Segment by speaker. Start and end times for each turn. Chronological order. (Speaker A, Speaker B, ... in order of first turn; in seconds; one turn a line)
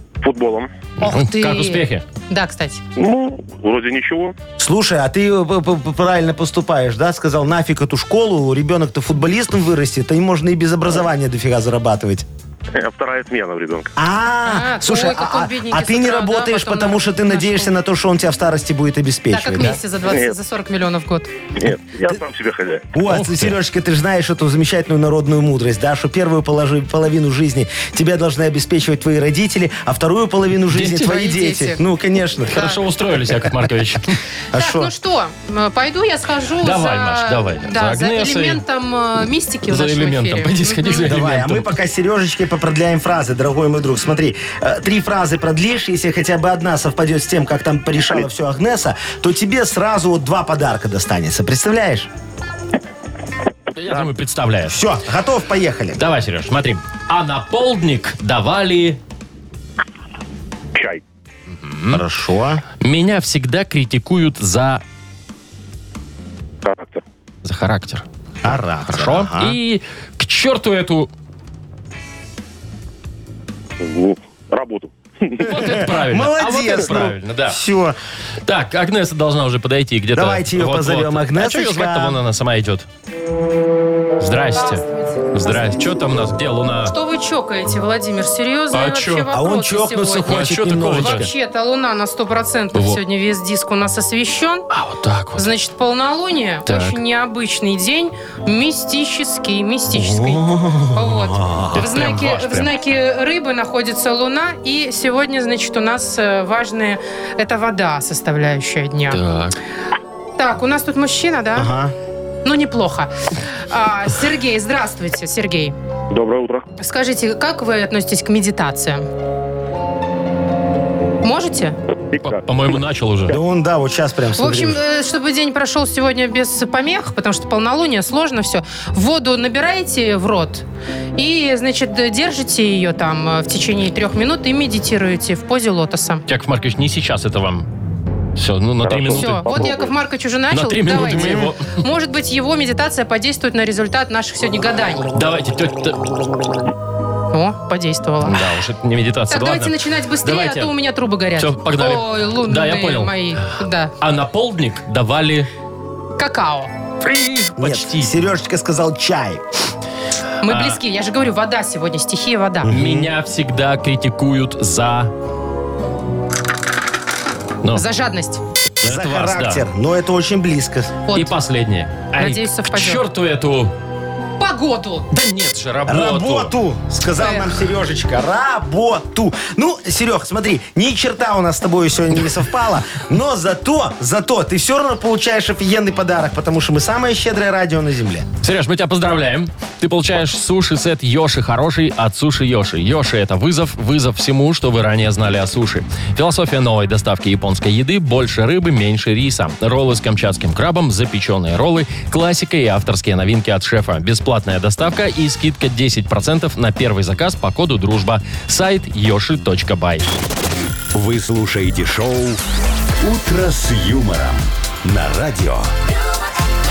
Speaker A: 0.2-0.7
Speaker B: 1.0-2.0
Speaker C: 1.0-2.8
Speaker A: 3.0-4.4
Speaker D: 4.6-12.2
Speaker A: 12.8-13.9
Speaker D: 14.0-19.8
Speaker C: 14.5-17.7
Speaker C: 19.3-21.3
Speaker A: 20.1-20.4
Speaker A: 21.6-22.9
Speaker D: 22.9-32.7
Speaker B: 23.1-23.6
Speaker B: 30.7-31.1
Speaker C: 31.0-31.8
Speaker B: 32.5-34.1
Speaker D: 34.5-34.9
Speaker C: 34.5-41.1
Speaker B: 36.6-38.6
Speaker B: 39.7-41.7
Speaker D: 41.0-52.1
Speaker B: 53.8-54.8
Speaker A: 53.9-54.1
Speaker D: 54.7-56.0
Speaker B: 56.0-59.0
Speaker A: 60.8-61.0
Speaker B: 61.5-62.0
Speaker D: 61.9-62.6
Speaker B: 62.8-64.8
Speaker A: 66.6-67.0
Speaker B: 67.4-68.0
Speaker D: 68.4-69.6
Speaker B: 68.8-71.1
Speaker A: 73.8-75.5
Speaker B: 75.4-77.6
Speaker D: 75.5-78.0
Speaker B: 78.5-82.9
Speaker D: 80.2-82.2
Speaker B: 84.2-87.0
Speaker C: 84.5-86.0
Speaker C: 86.9-94.7
Speaker B: 88.7-89.3
Speaker D: 89.3-91.3
Speaker B: 90.1-91.3
Speaker B: 92.7-93.0
Speaker B: 94.7-95.5
Speaker C: 95.4-109.2
Speaker B: 96.7-97.0
Speaker D: 99.9-101.9
Speaker B: 101.7-102.7
Speaker B: 109.1-109.6
Speaker C: 110.4-111.7
Speaker D: 111.6-111.9
Speaker C: 112.5-115.8
Speaker A: 116.1-116.7
Speaker C: 116.8-119.1
Speaker C: 121.2-121.8
Speaker A: 122.1-122.7
Speaker B: 122.2-123.4
Speaker D: 123.3-124.8
Speaker C: 124.4-130.7
Speaker C: 131.2-136.2
Speaker B: 136.3-137.7
Speaker B: 138.4-139.7
Speaker A: 138.8-140.0
Speaker C: 139.1-145.1
Speaker B: 140.5-141.8
Speaker D: 140.9-141.5
Speaker B: 145.1-146.0
Speaker C: 147.3-148.4
Speaker B: 148.2-150.7
Speaker C: 149.3-153.9
Speaker B: 151.4-153.2
Speaker B: 154.0-155.5
Speaker C: 156.2-156.7
Speaker B: 157.0-158.1
Speaker D: 157.6-159.4
Speaker C: 160.4-162.7
Speaker B: 160.4-160.8
Speaker D: 162.6-163.1
Speaker B: 162.7-165.1
Speaker C: 167.8-168.4
Speaker B: 168.8-169.6
Speaker D: 168.8-170.9
Speaker C: 171.1-171.3
Speaker B: 171.1-173.7
Speaker C: 172.2-173.0
Speaker C: 174.4-175.1
Speaker B: 175.1-176.5
Speaker D: 175.9-188.3
Speaker C: 177.2-177.5
Speaker B: 188.4-210.1
Speaker E: 210.9-212.4
Speaker E: 213.0-215.7